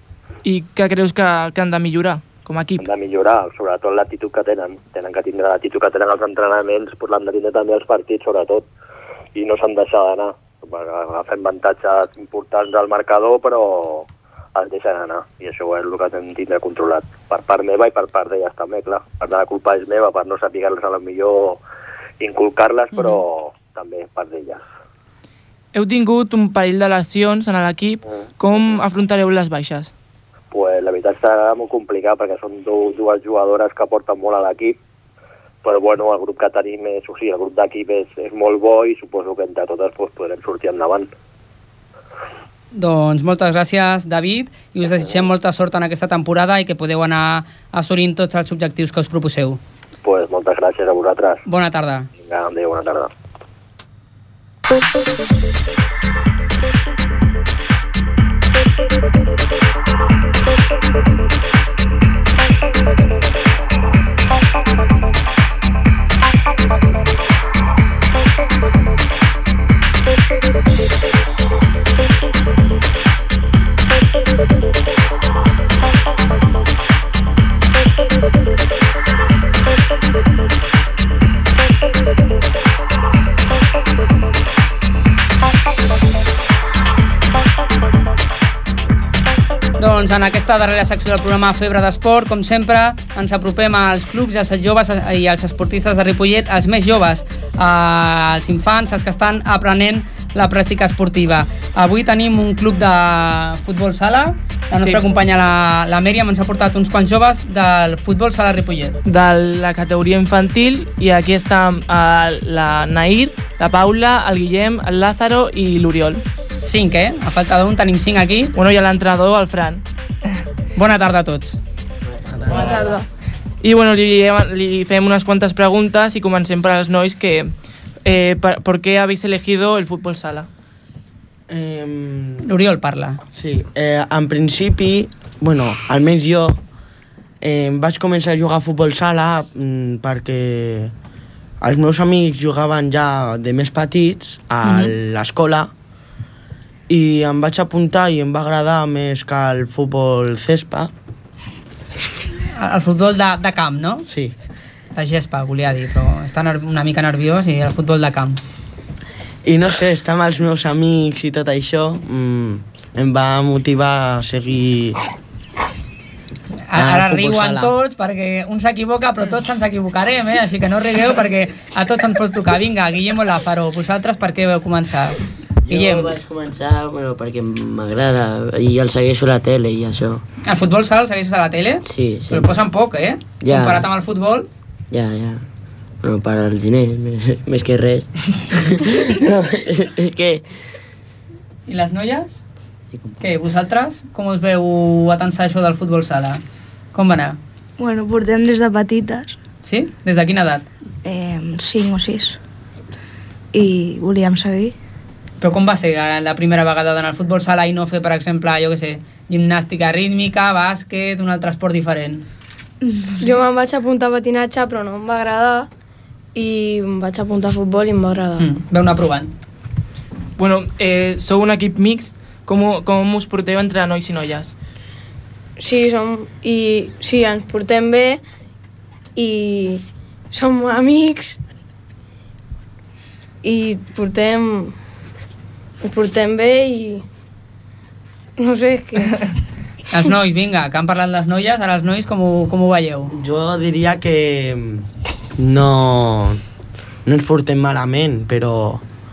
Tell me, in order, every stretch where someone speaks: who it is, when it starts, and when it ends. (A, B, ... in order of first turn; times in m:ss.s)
0:00.4-0:02.8 A
0:02.8-0:08.6 B
0:09.3-0:21.6 B
0:22.2-0:24.6 B
0:25.7-0:29.9 A
0:30.5-0:34.8 B
0:35.6-0:41.1 B
0:42.7-0:49.6 C
0:50.0-0:51.4 B
0:51.4-0:52.1 C
0:52.2-0:53.1 B
1:29.8-1:48.9 C
1:44.7-1:45.1 A
1:49.0-1:56.2 A
1:56.6-1:58.5 C
1:58.5-1:59.8 A
2:00.8-2:01.6 C
2:02.3-2:02.8 D
2:02.7-2:03.0 E
2:03.6-2:10.5 A
2:11.5-2:12.5 D
2:12.4-2:13.2 C
2:13.3-2:16.6 D
2:17.4-2:20.9 D
2:21.6-2:25.7 D
2:24.6-2:24.9 C
2:26.9-2:30.9 D
2:32.5-2:34.0 C
2:34.1-2:34.3 D
2:34.9-2:38.4 C
2:39.4-2:45.0 D
2:46.7-2:56.1 C
2:46.7-2:47.7 D
2:55.6-3:00.2 F
3:00.4-3:04.5 C
3:01.8-3:02.5 F
3:03.4-3:03.9 F
3:04.9-3:05.4 F
3:06.0-3:10.6 F
3:11.7-3:12.4 C
3:12.9-3:13.2 F
3:13.2-3:16.4 C
3:16.9-3:17.4 C
3:17.8-3:19.4 G
3:19.6-3:20.7 C
3:21.0-3:22.4 G
3:23.5-3:24.7 G
3:25.4-3:32.2 C
3:32.8-3:33.2 G
3:33.2-3:35.7 E
3:36.3-3:38.4 E
3:38.4-3:39.3 C
3:40.4-3:44.5 A
3:45.6-3:48.2 E
3:49.2-3:51.4 E
3:53.4-3:54.8 E
3:55.8-3:57.0 E
3:58.4-3:59.2 E
3:59.9-4:03.1 C
4:03.1-4:06.4 D
4:07.0-4:08.8 D